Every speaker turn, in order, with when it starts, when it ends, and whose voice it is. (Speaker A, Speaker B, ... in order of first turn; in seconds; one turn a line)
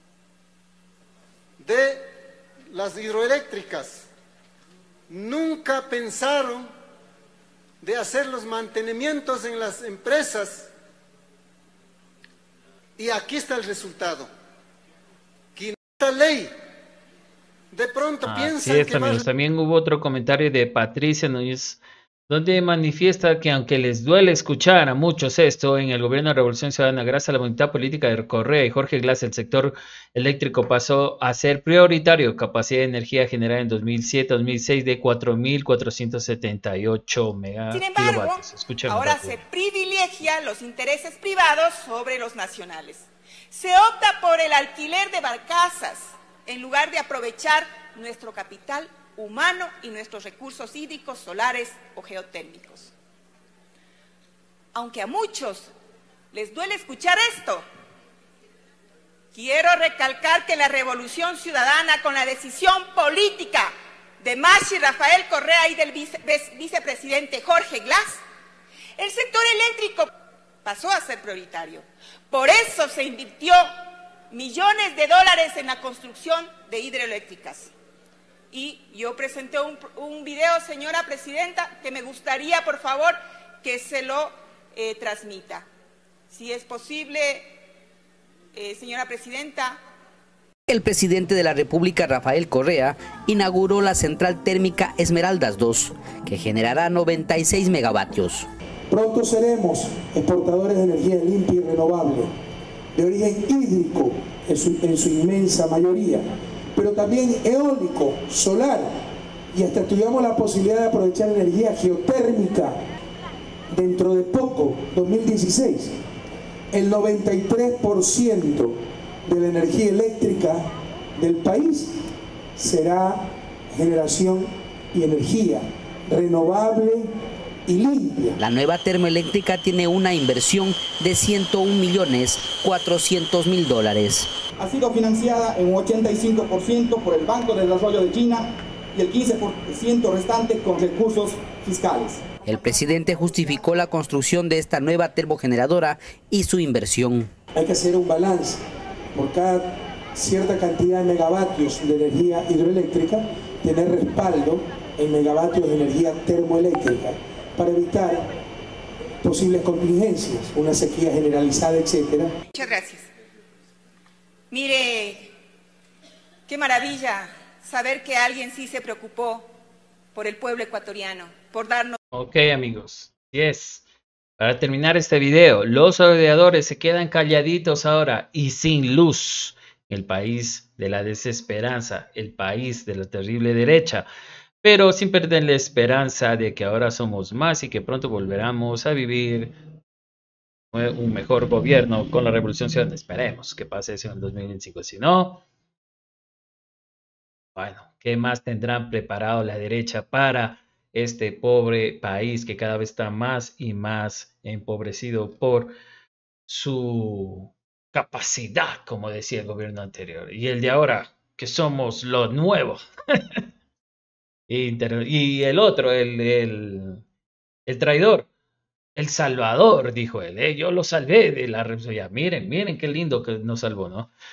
Speaker A: 1.6-2.0
Speaker A: 2.7-4.1
Speaker A: 5.1-6.7
Speaker A: 7.8-10.7
Speaker A: 13.0-14.3
Speaker A: 15.6-16.5
Speaker A: 17.7-19.2
Speaker B: 18.2-39.4
Speaker C: 37.7-52.9
Speaker C: 54.7-55.7
Speaker C: 56.3-57.6
Speaker C: 59.3-68.2
Speaker C: 69.0-70.1
Speaker C: 70.6-73.6
Speaker C: 74.3-77.7
Speaker C: 78.5-85.7
Speaker C: 86.3-87.5
Speaker C: 88.5-89.8
Speaker D: 90.7-98.5
Speaker E: 98.9-102.3
Speaker E: 102.9-106.2
Speaker E: 106.7-108.9
Speaker E: 109.5-112.8
Speaker E: 113.7-116.0
Speaker E: 116.7-122.0
Speaker E: 122.5-127.1
Speaker E: 127.7-128.4
Speaker D: 128.4-134.3
Speaker F: 134.6-142.2
Speaker D: 142.4-147.3
Speaker E: 147.5-148.6
Speaker E: 149.1-158.3
Speaker E: 159.2-162.3
Speaker C: 162.5-163.1
Speaker C: 164.5-165.3
Speaker C: 166.5-169.5
Speaker C: 170.1-172.0
Speaker B: 172.1-173.8
Speaker B: 174.4-184.1
Speaker B: 184.6-189.6
Speaker B: 190.7-195.4
Speaker B: 197.5-205.7
Speaker B: 206.5-212.8
Speaker B: 214.5-217.0
Speaker B: 217.7-218.3
Speaker B: 218.9-224.1